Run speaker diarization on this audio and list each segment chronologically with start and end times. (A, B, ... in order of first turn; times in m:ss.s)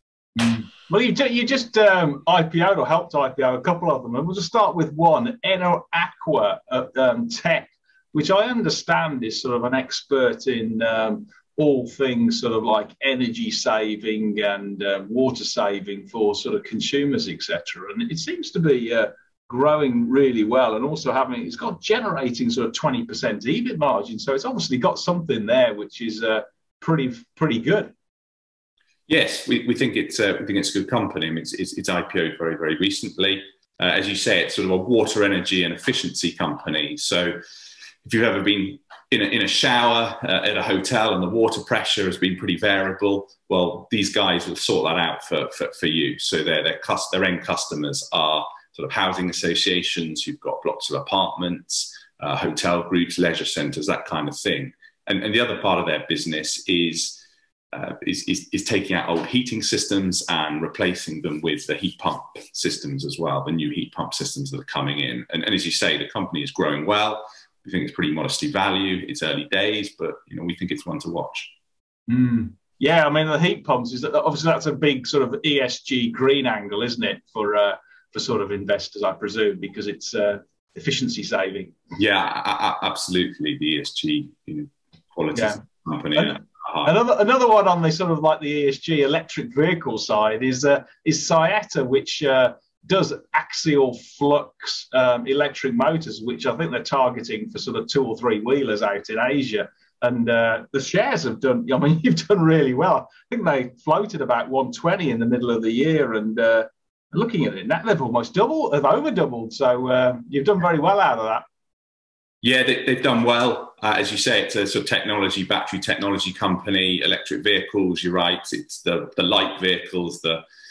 0:00.4-0:27.9 A
0:29.1-0:37.4 B
0:38.0-1:11.5 B
1:12.1-1:21.8 A
1:22.0-1:26.9 B
1:25.3-1:25.6 A
1:26.1-1:51.4 A
1:52.4-2:00.4 B